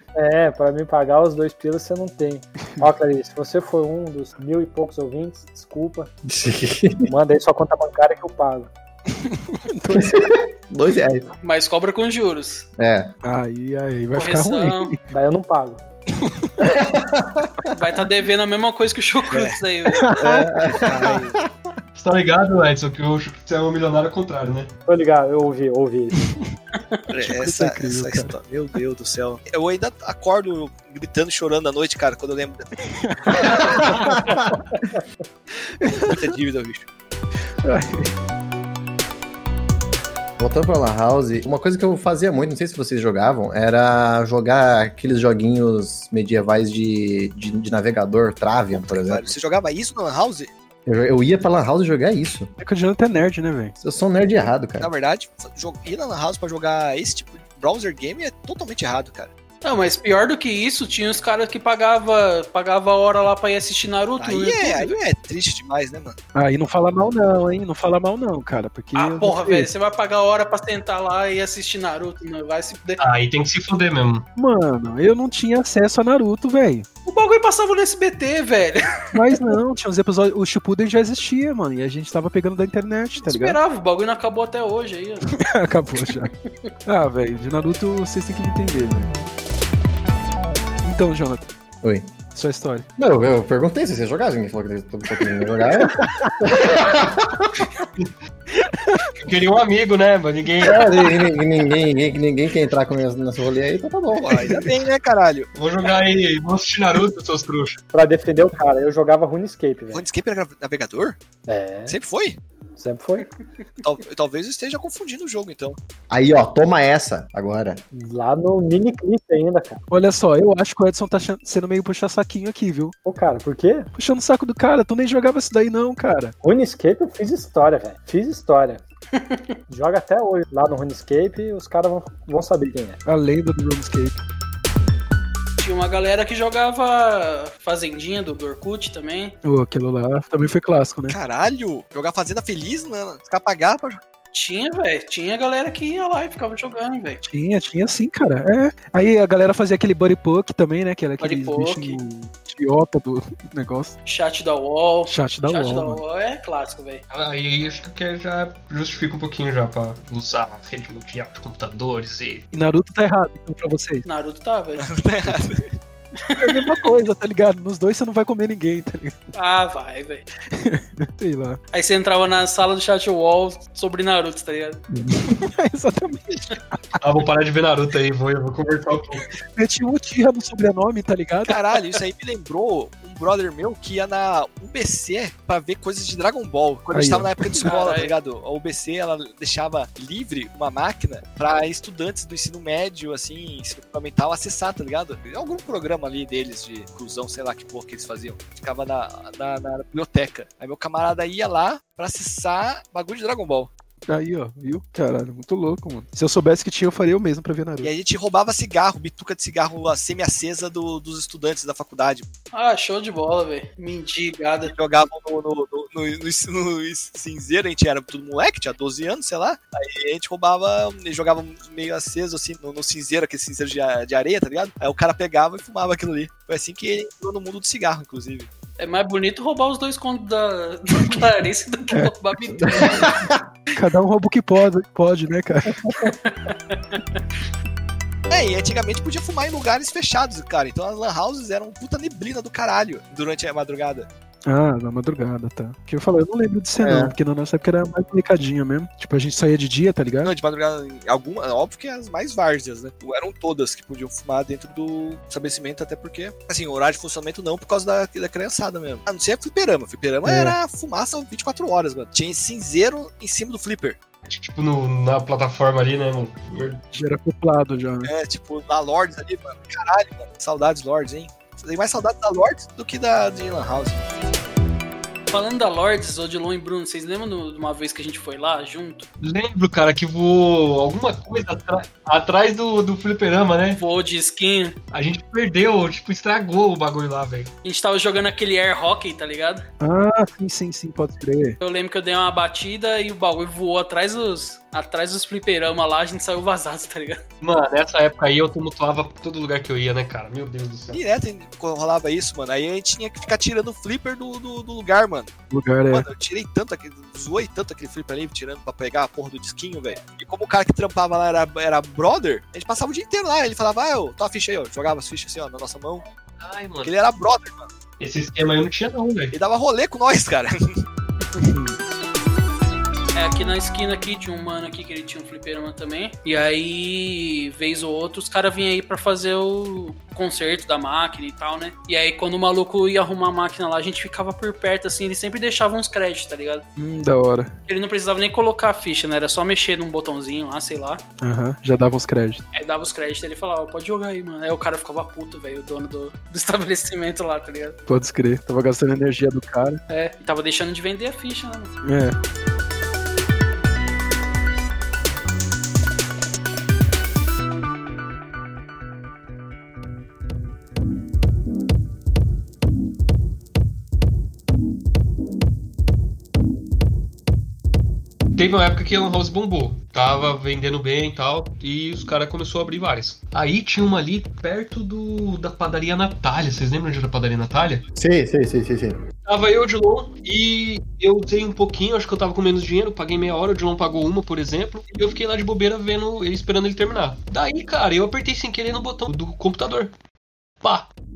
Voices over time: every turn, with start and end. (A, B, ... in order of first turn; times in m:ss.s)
0:00.2-0:06.1 A
0:06.3-0:07.1 B
0:07.1-0:08.7 A
0:09.1-0:10.3 C
0:09.9-0:11.3 B
0:11.4-0:12.7 D
0:12.8-0:13.1 B
0:13.2-0:15.0 C
0:14.2-0:14.9 D
0:15.1-0:15.8 A
0:16.2-0:16.5 C
0:16.6-0:17.5 B
0:17.7-0:20.2 D
0:19.3-0:19.6 E
0:19.9-0:20.3 C
0:20.2-0:21.4 B
0:22.0-0:24.7 F
0:24.9-0:26.3 A
0:27.1-0:32.7 E
0:27.2-0:28.3 C
0:32.9-0:34.2 C
0:33.6-0:34.4 B
0:35.8-0:36.2 C
0:36.0-0:36.9 E
0:37.6-0:38.1 C
0:40.4-0:49.4 B
0:48.7-0:50.5 E
0:50.9-0:52.5 B
0:52.6-0:53.8 C
0:53.8-0:54.9 B
0:54.8-0:59.3 E
0:59.6-1:04.9 D
1:04.2-1:06.2 E
1:06.4-1:09.7 C
1:09.0-1:13.0 D
1:13.0-1:14.3 F
1:14.4-1:16.9 C
1:17.1-1:19.2 D
1:19.1-1:23.6 C
1:23.2-1:25.3 D
1:25.4-1:26.3 C
1:26.1-1:26.7 D
1:26.9-1:29.1 C
1:30.8-1:31.5 C
1:31.8-1:32.1 B
1:32.3-1:32.9 C
1:33.0-1:37.7 B
1:36.0-1:36.3 C
1:38.6-1:39.1 C
1:39.2-1:40.9 F
1:40.6-1:44.5 B
1:44.2-1:45.5 E
1:45.6-1:47.8 F
1:47.9-1:50.1 A
1:49.9-1:51.2 E
1:51.5-1:52.0 A
1:51.9-1:52.4 E
1:52.8-1:53.3 A
1:53.8-1:55.8 E
1:56.1-1:57.8 B
1:57.9-1:59.8 A
1:59.9-2:03.0 C
2:03.0-2:03.9 A
2:04.0-2:06.4 C
2:06.4-2:08.8 A
2:09.7-2:13.0 A
2:13.1-2:14.2 C
2:15.6-2:19.4 D
2:19.4-2:21.2 C
2:21.1-2:24.0 E
2:24.3-2:27.2 D
2:27.2-2:34.0 C
2:31.2-2:32.0 D
2:34.1-2:37.0 D
2:35.1-2:36.0 C
2:37.1-2:42.4 F
2:42.5-2:44.1 C
2:44.0-2:44.9 D
2:44.8-2:45.7 E
2:46.3-2:46.9 D
2:46.4-2:49.2 C
2:49.4-2:50.2 D
2:50.5-2:51.6 C
2:51.7-2:54.8 D
2:54.9-2:55.4 B
2:55.2-2:57.0 C
2:57.0-2:59.3 F
2:59.6-3:01.6 C
3:01.5-3:23.7 E
3:06.9-3:07.6 C
3:07.6-3:08.1 D
3:24.1-3:27.9 C
3:27.8-3:32.3 E
3:32.5-3:34.7 D
3:34.6-3:48.5 E
3:48.8-3:53.2 D
3:52.8-3:53.3 B
3:53.8-3:55.8 C
3:56.0-3:57.0 D
3:58.3-4:04.1 E
4:04.5-4:10.3 C
4:06.8-4:07.1 B
4:10.2-4:24.0 E
4:20.2-4:20.6 C
4:24.3-4:26.8 F
4:26.9-4:28.1 C
4:28.0-4:34.1 E
4:35.3-4:39.1 D
4:39.2-4:43.8 F
4:43.8-4:44.8 D
4:44.9-4:47.5 F
4:47.6-4:49.6 D
4:49.8-4:51.6 C
4:51.6-4:57.2 D
4:57.4-5:01.0 F
5:00.9-5:05.3 E
5:05.5-5:06.1 C
5:05.9-5:16.1 E
5:16.4-5:16.9 F
5:16.8-5:17.7 E
5:18.0-5:19.4 F
5:19.3-5:20.8 E
5:21.4-5:21.8 C
5:23.2-5:36.6 D
5:36.8-5:37.6 C
5:37.7-5:41.0 D
5:41.2-5:42.4 C
5:42.5-5:47.8 D
5:47.9-5:49.8 C
5:49.9-5:51.8 D
5:51.8-5:52.2 C
6:08.4-6:17.8 F
6:18.0-6:19.0 B
6:19.3-6:29.9 F
6:30.6-6:30.9 F